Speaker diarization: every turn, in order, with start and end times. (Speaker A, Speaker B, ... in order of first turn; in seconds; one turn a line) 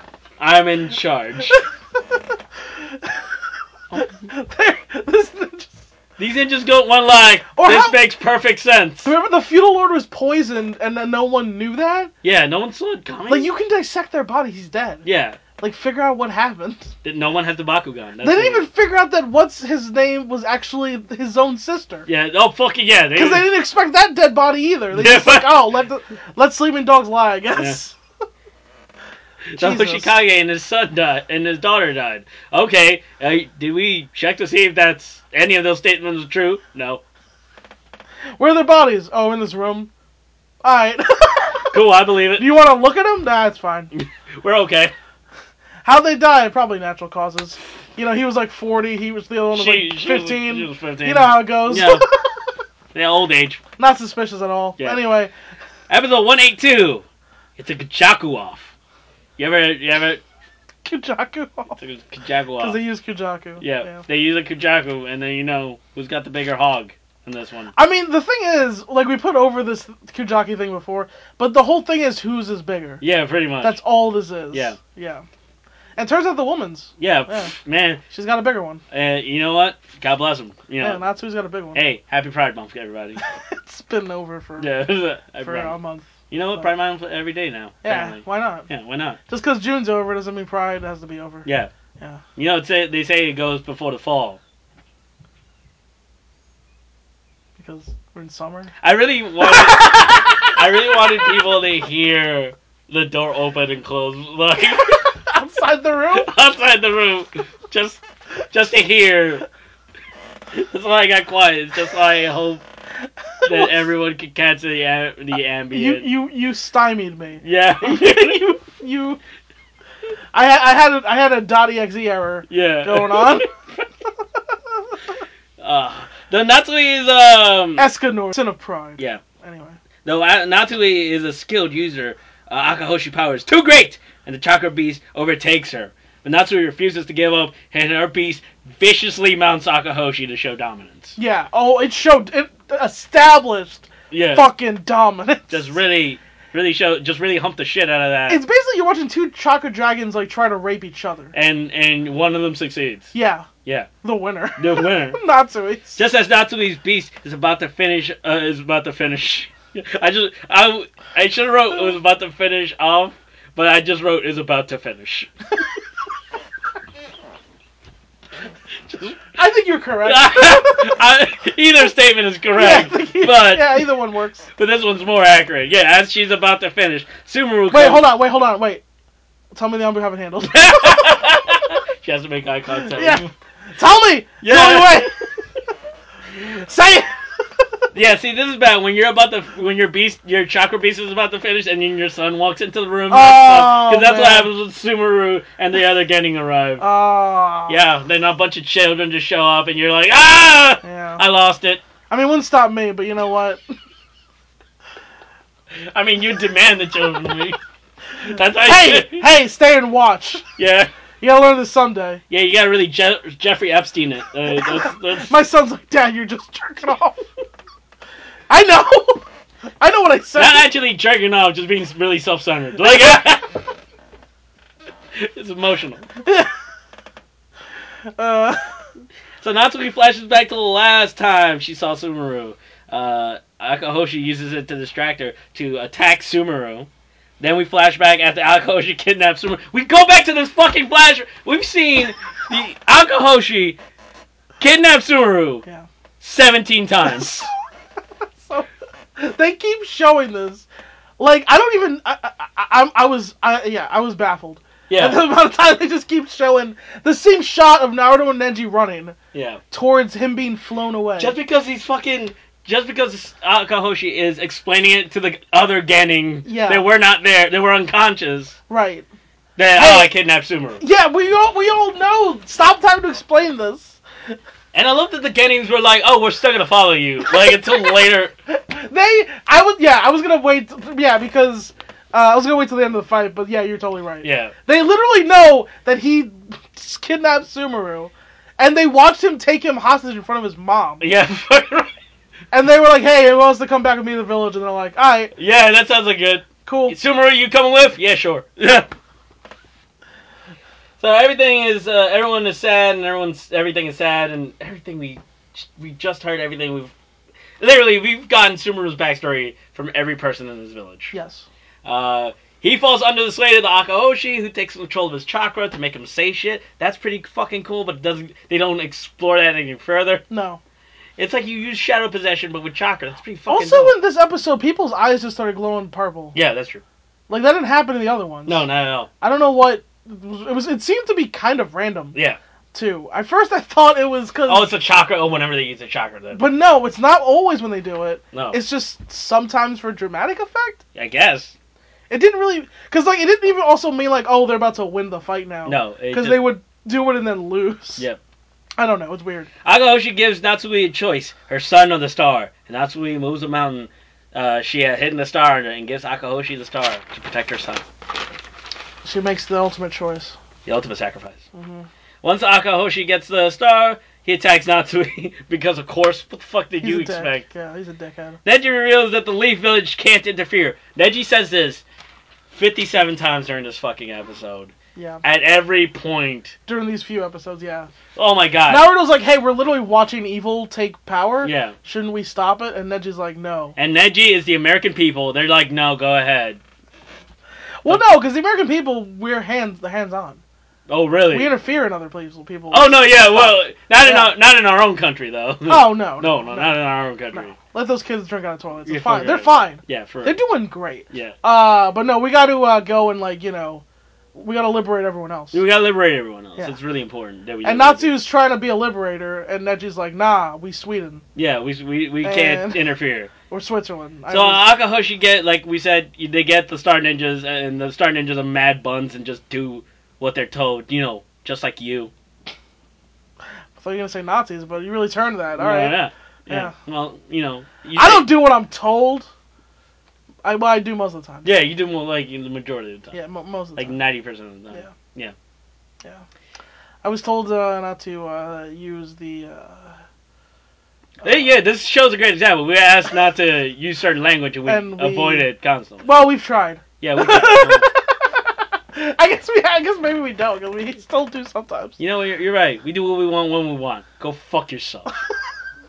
Speaker A: 0.4-1.6
Speaker B: 2.7-3.2
Speaker A: 3.9-4.2
Speaker B: 4.0-5.8
Speaker A: 6.2-9.1
Speaker B: 7.5-8.0
Speaker B: 9.0-12.1
Speaker A: 12.2-13.5
Speaker B: 13.3-15.1
Speaker A: 15.1-15.4
Speaker B: 15.6-16.9
Speaker A: 17.0-18.7
Speaker B: 18.2-22.1
Speaker A: 22.1-23.5
Speaker B: 23.1-28.0
Speaker A: 24.9-25.7
Speaker A: 29.5-37.0
Speaker B: 29.6-30.1
Speaker B: 38.4-39.9
Speaker B: 40.6-41.8
Speaker A: 41.7-42.5
Speaker B: 42.4-43.9
Speaker A: 43.9-44.9
Speaker B: 45.9-52.5
Speaker A: 49.5-52.0
Speaker A: 52.9-53.6
Speaker B: 53.8-55.3
Speaker A: 55.9-57.0
Speaker A: 57.6-58.7
Speaker A: 59.4-60.2
Speaker B: 60.8-61.8
Speaker A: 61.8-62.8
Speaker B: 62.6-64.0
Speaker A: 63.6-67.7
Speaker B: 67.8-73.0
Speaker A: 73.0-73.8
Speaker B: 73.6-75.2
Speaker A: 74.5-74.8
Speaker B: 76.0-77.5
Speaker A: 77.0-78.0
Speaker B: 78.1-78.8
Speaker A: 78.9-81.0
Speaker B: 80.8-81.8
Speaker A: 81.8-83.2
Speaker B: 83.2-84.8
Speaker A: 84.6-85.8
Speaker B: 85.4-86.1
Speaker A: 86.3-89.2
Speaker B: 87.8-88.7
Speaker B: 89.3-91.5
Speaker A: 91.5-91.7
Speaker A: 92.4-94.4
Speaker B: 97.6-98.7
Speaker A: 98.8-105.0
Speaker B: 99.4-100.6
Speaker B: 104.7-106.3
Speaker A: 106.1-109.5
Speaker A: 110.5-112.6
Speaker B: 113.4-113.8
Speaker A: 113.5-116.1
Speaker B: 115.7-119.2
Speaker A: 117.4-118.4
Speaker B: 120.3-123.5
Speaker A: 122.5-123.5
Speaker A: 125.6-127.9
Speaker B: 127.8-129.8
Speaker A: 130.1-141.2
Speaker B: 141.2-145.7
Speaker A: 144.1-144.5
Speaker A: 145.5-148.4
Speaker B: 148.3-151.3
Speaker A: 151.3-153.1
Speaker B: 153.1-153.5
Speaker A: 153.7-153.9
Speaker B: 154.0-156.0
Speaker A: 154.6-155.2
Speaker A: 156.0-165.3
Speaker A: 168.9-169.2
Speaker B: 169.3-171.0
Speaker A: 170.0-173.9
Speaker B: 172.6-174.5
Speaker A: 174.6-178.1
Speaker B: 177.7-178.8
Speaker B: 179.6-181.3
Speaker A: 180.5-183.3
Speaker B: 182.8-185.1
Speaker A: 184.4-185.1
Speaker B: 186.4-187.2
Speaker A: 187.9-196.8
Speaker B: 193.1-194.5
Speaker B: 196.8-197.8
Speaker A: 197.7-201.8
Speaker B: 200.8-201.2
Speaker B: 202.1-203.6
Speaker A: 205.9-207.6
Speaker A: 208.2-209.2
Speaker B: 208.2-210.5
Speaker A: 210.6-210.9
Speaker B: 211.2-212.2
Speaker A: 212.3-215.3
Speaker B: 214.5-217.3
Speaker B: 218.5-219.2
Speaker B: 219.8-220.7
Speaker A: 220.4-223.5
Speaker A: 225.1-226.1
Speaker B: 226.2-226.5
Speaker B: 228.2-228.8
Speaker A: 229.4-236.9
Speaker A: 237.4-243.8
Speaker A: 244.6-245.6
Speaker A: 246.2-247.5
Speaker B: 247.1-247.4
Speaker B: 248.4-250.7
Speaker B: 251.2-259.2
Speaker A: 254.9-255.2
Speaker A: 259.3-259.6
Speaker B: 259.7-261.4
Speaker A: 261.2-268.6
Speaker B: 266.4-266.8
Speaker B: 268.7-269.1
Speaker A: 269.6-270.8
Speaker B: 269.7-270.1
Speaker B: 270.8-274.4
Speaker A: 274.7-278.3
Speaker B: 277.5-277.8
Speaker B: 278.5-291.1
Speaker A: 284.2-284.5
Speaker A: 291.0-291.9
Speaker B: 292.5-295.3
Speaker A: 295.4-298.9
Speaker B: 296.7-297.0
Speaker A: 301.0-306.9
Speaker A: 307.6-311.1
Speaker B: 311.1-311.5
Speaker A: 311.8-320.2
Speaker B: 320.3-320.6
Speaker A: 321.2-324.0
Speaker B: 323.5-326.4
Speaker A: 326.3-326.8
Speaker B: 327.3-328.7
Speaker A: 328.5-329.1
Speaker B: 329.2-332.2
Speaker A: 332.1-332.4
Speaker B: 332.7-334.7
Speaker A: 334.5-336.5
Speaker B: 336.4-340.8
Speaker A: 338.3-338.6
Speaker A: 340.9-341.5
Speaker B: 342.1-348.1
Speaker A: 345.7-346.5
Speaker B: 348.8-349.5
Speaker A: 349.6-357.9
Speaker B: 359.0-360.4
Speaker A: 360.6-361.4
Speaker B: 361.5-361.9
Speaker A: 362.2-367.4
Speaker B: 366.8-368.4
Speaker A: 368.4-371.8
Speaker A: 372.5-376.6
Speaker B: 374.9-375.2
Speaker B: 376.7-377.9
Speaker A: 378.1-378.9
Speaker B: 378.7-383.8
Speaker A: 381.4-381.8
Speaker A: 383.8-386.6
Speaker B: 387.8-390.4
Speaker A: 390.9-391.5
Speaker B: 391.3-394.3
Speaker A: 392.7-397.6
Speaker B: 395.7-396.8
Speaker B: 397.3-403.8
Speaker A: 398.9-400.4
Speaker A: 401.1-401.4
Speaker B: 404.4-405.6
Speaker A: 405.5-408.1
Speaker B: 407.6-411.2
Speaker A: 411.4-413.3
Speaker B: 412.2-412.8
Speaker B: 413.5-414.7
Speaker A: 414.3-422.1
Speaker B: 423.8-426.8
Speaker A: 425.6-428.3
Speaker B: 428.0-429.3
Speaker B: 430.4-431.5
Speaker A: 431.4-433.1
Speaker B: 433.1-434.0
Speaker A: 433.8-435.3
Speaker B: 437.0-440.0
Speaker A: 441.2-446.0
Speaker B: 444.7-445.5
Speaker B: 446.0-452.0
Speaker A: 447.0-447.9
Speaker A: 452.0-455.1